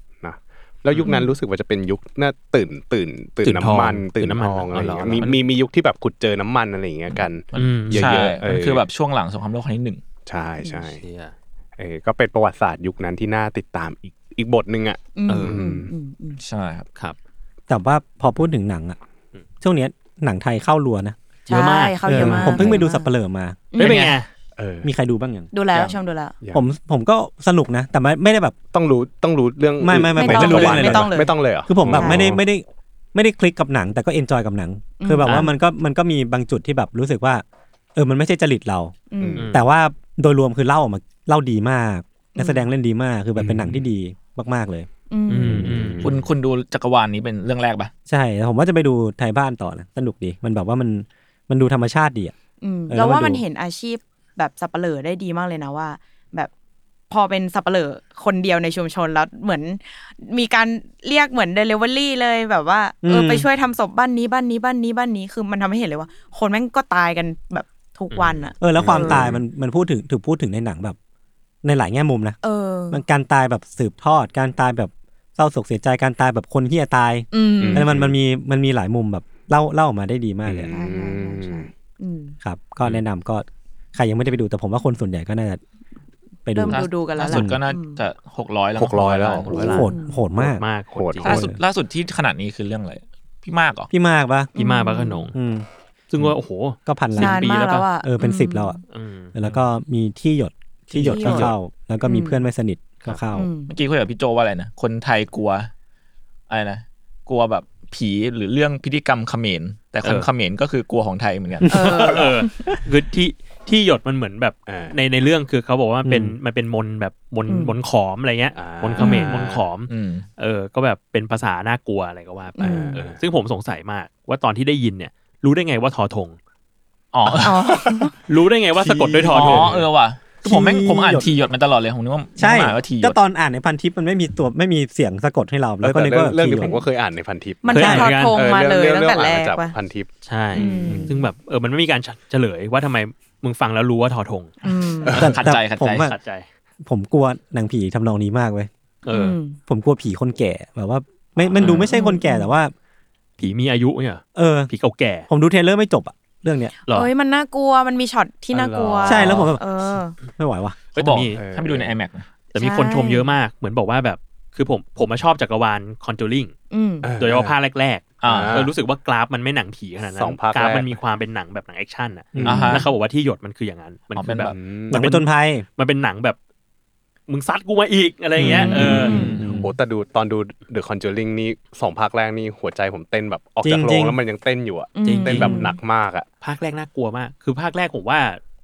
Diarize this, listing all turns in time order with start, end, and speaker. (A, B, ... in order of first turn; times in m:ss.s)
0:00.2-0:08.8 A
0:01.0-0:01.4 B
0:03.4-0:05.4 C
0:07.5-0:08.1 C
0:07.5-0:10.0 D
0:10.2-0:11.0 A
0:11.0-0:11.3 C
0:11.8-0:15.9 A
0:15.1-0:16.4 B
0:15.3-0:15.6 C
0:16.4-0:16.8 D
0:17.7-0:19.0 E
0:19.6-0:21.2 E
0:21.5-0:23.1 B
0:21.5-0:22.8 C
0:22.0-0:23.6 E
0:22.1-0:22.7 A
0:23.7-0:24.1 B
0:23.8-0:24.3 C
0:23.8-0:24.2 D
0:24.6-0:24.9 A
0:24.8-0:25.5 E
0:25.5-0:26.4 B
0:26.5-0:28.6 E
0:28.7-0:32.4 A
0:29.8-0:31.1 E
0:30.1-0:32.2 B
0:31.6-0:37.4 E
0:35.0-0:35.3 B
0:35.2-0:35.5 C
0:37.9-0:38.9 E
0:39.1-0:39.5 B
0:39.2-0:39.5 A
0:39.4-0:39.6 C
0:39.5-0:44.9 E
0:42.3-0:42.7 B
0:43.4-0:43.7 A
0:45.1-0:45.7 B
0:45.3-0:46.1 C
0:45.4-0:46.2 A
0:46.0-0:47.9 D
0:48.1-0:52.3 E
0:52.6-0:56.5 B
0:52.9-0:53.4 E
0:57.1-1:09.2 B
1:03.0-1:03.5 E
1:08.1-1:08.5 C
1:08.6-1:11.0 E
1:08.7-1:09.4 A
1:11.6-1:12.4 E
1:12.4-1:13.0 B
1:12.9-1:20.7 E
1:17.3-1:17.9 B
1:17.6-1:18.1 A
1:20.5-1:21.7 A
1:20.7-1:22.4 B
1:22.4-1:25.6 E
1:26.4-1:27.6 E
1:26.5-1:28.0 B
1:26.7-1:29.6 D
1:28.8-1:29.8 A
1:29.4-1:31.4 C
1:29.5-1:30.6 E
1:29.7-1:30.2 B
1:30.9-1:31.5 A
1:31.2-1:33.9 D
1:31.2-1:31.6 E
1:33.9-1:34.5 E
1:34.5-1:35.3 B
1:34.5-1:35.3 C
1:35.3-1:35.6 E
1:36.1-1:37.8 C
1:36.8-1:38.8 E
1:37.2-1:38.8 B
1:38.9-1:39.6 C
1:39.3-1:43.5 E
1:40.9-1:41.5 C
1:40.9-1:41.5 B
1:42.0-1:42.5 B
1:43.3-1:43.7 B
1:43.7-1:45.7 D
1:46.5-1:51.7 D
1:50.0-1:50.3 C
1:51.6-1:52.7 B
1:51.6-2:06.4 C
1:51.8-1:52.3 A
1:54.7-1:55.0 A
1:56.0-1:56.3 E
1:57.5-1:57.7 B
1:58.5-1:59.6 A
1:59.0-1:59.4 B
1:59.8-2:00.2 D
2:02.6-2:03.0 B
2:02.6-2:03.2 A
2:07.1-2:07.9 D
2:07.3-2:08.1 B
2:08.3-2:09.8 C
2:08.8-2:09.9 A
2:09.3-2:13.2 D
2:10.4-2:11.3 E
2:12.4-2:16.8 E
2:15.8-2:21.0 A
2:17.6-2:19.8 B
2:17.7-2:18.5 C
2:17.8-2:18.1 E
2:20.2-2:24.6 C
2:20.5-2:21.2 B
2:24.6-2:25.2 B
2:25.1-2:25.3 A
2:25.1-2:26.4 C
2:25.1-2:26.1 E
2:25.2-2:26.1 D
2:26.8-2:28.7 E
2:29.0-2:29.4 C
2:29.0-2:29.6 B
2:29.7-2:32.7 E
2:31.4-2:31.9 A
2:31.6-2:31.9 C
2:31.8-2:32.5 B
2:33.4-2:35.3 C
2:34.3-2:34.7 E
2:35.3-2:36.7 E
2:36.9-2:40.1 B
2:38.5-2:39.4 A
2:39.0-2:39.6 E
2:39.1-2:39.5 C
2:40.4-2:40.8 E
2:40.9-2:41.4 C
2:41.0-2:42.3 D
2:41.4-2:41.9 A
2:42.5-2:46.5 C
2:42.6-2:43.3 B
2:46.7-2:47.1 B
2:47.0-2:47.6 A
2:47.2-2:56.4 C
2:48.2-2:48.7 D
2:48.2-2:48.7 A
2:50.1-2:50.9 A
2:52.3-2:52.8 A
2:52.4-2:52.8 E
2:52.4-2:52.9 D
2:54.1-2:54.5 D
2:54.5-2:55.1 A
2:54.9-2:55.6 E
2:57.3-2:59.2 C
2:58.4-2:59.7 E
2:58.4-2:59.4 B
2:58.7-3:06.2 A
3:03.6-3:04.2 E
3:04.9-3:05.8 B
3:05.0-3:05.6 C
3:06.4-3:08.4 C